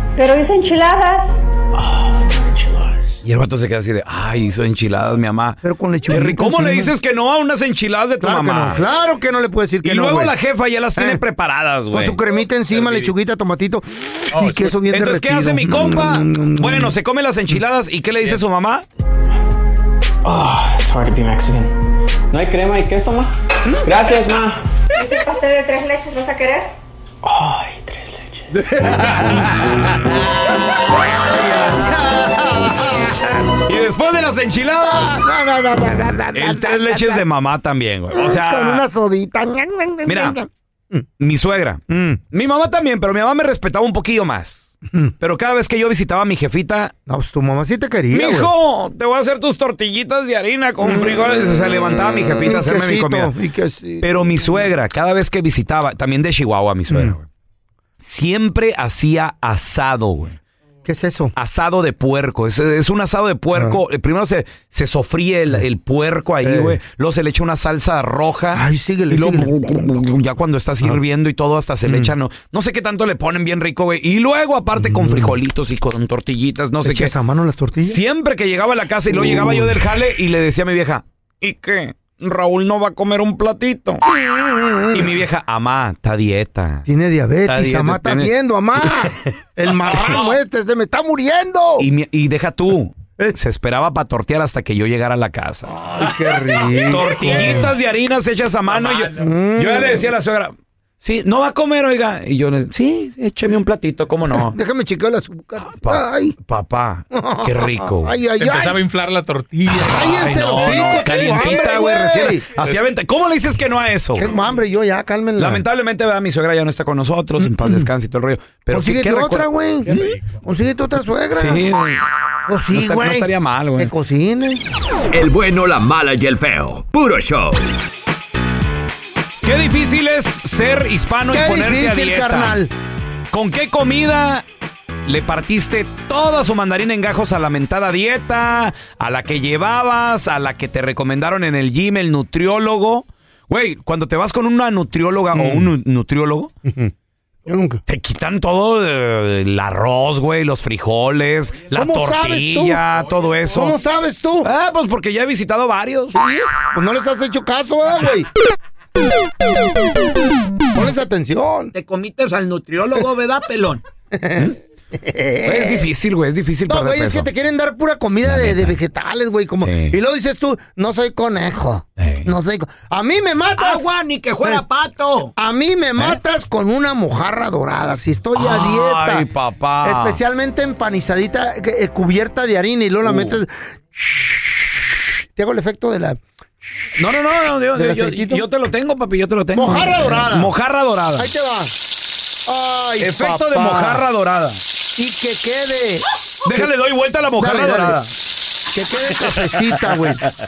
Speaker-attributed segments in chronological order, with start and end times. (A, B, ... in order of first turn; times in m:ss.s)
0:00.2-0:01.4 A
0:01.7-0:03.2 B
0:03.2-0:08.8 C
0:05.6-0:06.9 D
0:08.2-0:10.4 D
0:09.8-0:12.2 C
0:11.0-0:11.2 D
0:11.9-0:17.0 D
0:12.7-0:13.1 E
0:14.3-0:14.7 E
0:14.9-0:18.8 C
0:20.2-0:21.7 B
0:22.3-0:23.3 B
0:23.8-0:24.6 B
0:24.9-0:26.7 A
0:27.2-0:28.8 B
0:28.6-0:30.2 C
0:30.9-0:33.3 D
0:33.6-0:35.2 C
0:34.8-0:37.2 D
0:36.3-0:38.9 C
0:38.1-0:41.1 D
0:40.0-0:40.4 C
0:41.2-0:46.9 C
0:41.9-0:42.2 D
0:47.1-0:48.5 D
0:48.1-0:53.3 C
0:50.8-0:51.2 D
0:51.8-0:54.6 D
0:54.0-0:57.3 C
0:56.9-0:57.2 D
0:58.0-1:00.4 C
1:00.9-1:01.4 D
1:01.4-1:17.1 C
1:03.5-1:03.8 D
1:06.4-1:06.8 D
1:08.5-1:10.0 D
1:11.8-1:12.1 D
1:14.8-1:15.4 D
1:16.8-1:18.0 D
1:17.8-1:24.0 C
1:19.1-1:19.8 D
1:24.0-1:25.2 D
1:24.9-1:26.9 C
1:26.9-1:31.9 D
1:27.5-1:28.3 C
1:29.9-1:30.3 C
1:31.8-1:35.8 C
1:35.7-1:37.7 D
1:36.1-1:37.8 E
1:36.8-1:44.6 C
1:38.6-1:39.3 E
1:39.1-1:40.1 D
1:44.3-1:46.4 D
1:45.6-1:48.2 C
1:47.1-1:48.8 D
1:48.4-1:51.9 E
1:49.7-1:52.5 D
1:49.7-1:54.4 C
1:52.6-1:52.9 E
1:54.2-1:55.6 D
1:55.4-2:00.0 C
1:57.4-1:57.9 D
1:58.7-2:01.7 D
1:59.8-2:00.3 E
2:01.3-2:02.0 C
2:02.5-2:04.6 D
2:02.7-2:03.9 C
2:05.1-2:07.8 F
2:09.4-2:12.6 C
2:11.3-2:12.7 D
2:13.3-2:14.4 C
2:15.1-2:26.5 C
2:25.3-2:25.7 D
2:26.6-2:26.9 D
2:27.5-2:27.8 D
2:27.9-2:33.8 C
2:31.7-2:32.8 D
2:33.5-2:34.5 D
2:34.4-2:36.2 C
2:36.1-2:38.3 D
2:40.7-2:41.7 D
2:41.7-2:43.8 C
2:44.1-2:45.9 D
2:45.4-2:47.3 C
2:46.7-2:54.6 D
2:48.2-2:48.8 C
2:49.6-2:50.0 C
2:52.0-2:52.3 C
2:53.6-2:55.3 C
2:55.4-2:59.3 D
2:58.4-3:00.2 C
2:59.8-3:03.6 D
3:03.0-3:03.4 C
3:05.4-3:06.2 D
3:07.0-3:11.3 C
3:07.8-3:08.4 D
3:09.5-3:10.5 D
3:11.2-3:11.8 D
3:12.5-3:14.0 D
3:13.0-3:14.6 C
3:15.0-3:16.7 D
3:16.4-3:18.1 C
3:17.4-3:18.0 D
3:18.7-3:20.2 D
3:19.3-3:20.1 C